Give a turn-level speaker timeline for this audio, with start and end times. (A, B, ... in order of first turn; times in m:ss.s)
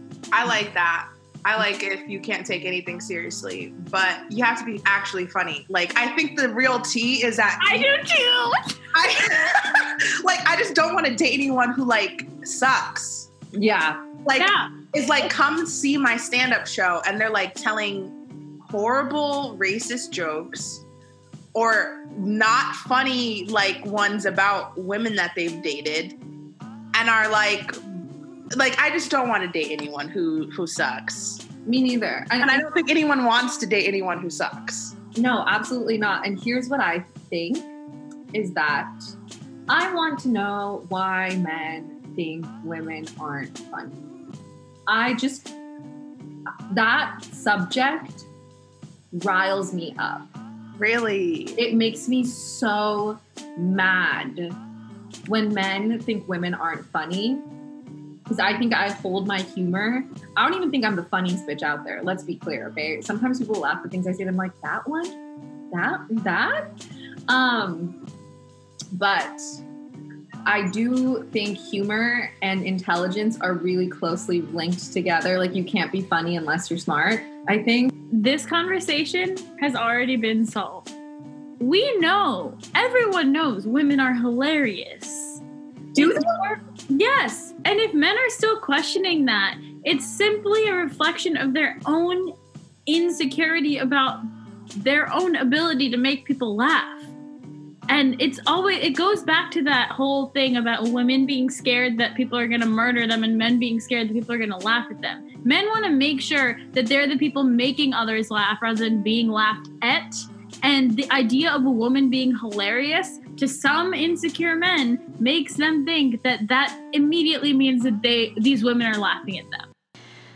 0:00.3-0:07.9 A
0:07.6-0:08.8 B
0:08.9-0:13.3 A
0:13.5-0:14.1 C
0:14.2-0:18.1 A
0:14.4-0:14.7 B
0:18.6-0:20.8 A
0:21.6-0:26.2 A
0:27.0-0:27.8 A
0:28.6-0:31.4 A
0:31.7-0:32.7 C
0:32.4-0:35.0 A
0:35.2-0:37.7 C
0:38.3-0:39.1 C
0:39.7-0:44.0 C
0:44.9-0:45.5 C
0:46.7-0:48.3 C
0:49.1-0:50.3 C
0:50.8-0:51.6 A
0:51.6-0:54.6 C
0:55.2-0:57.5 C
0:58.3-1:05.2 C
1:05.7-1:06.8 C
1:07.3-1:08.0 C
1:08.9-1:09.6 C
1:10.5-1:17.9 C
1:18.1-1:20.9 B
1:21.6-1:25.4 B
1:26.0-1:26.4 C
1:26.0-1:32.3 B
1:32.9-1:34.2 B
1:34.8-1:37.1 B
1:37.9-1:59.7 B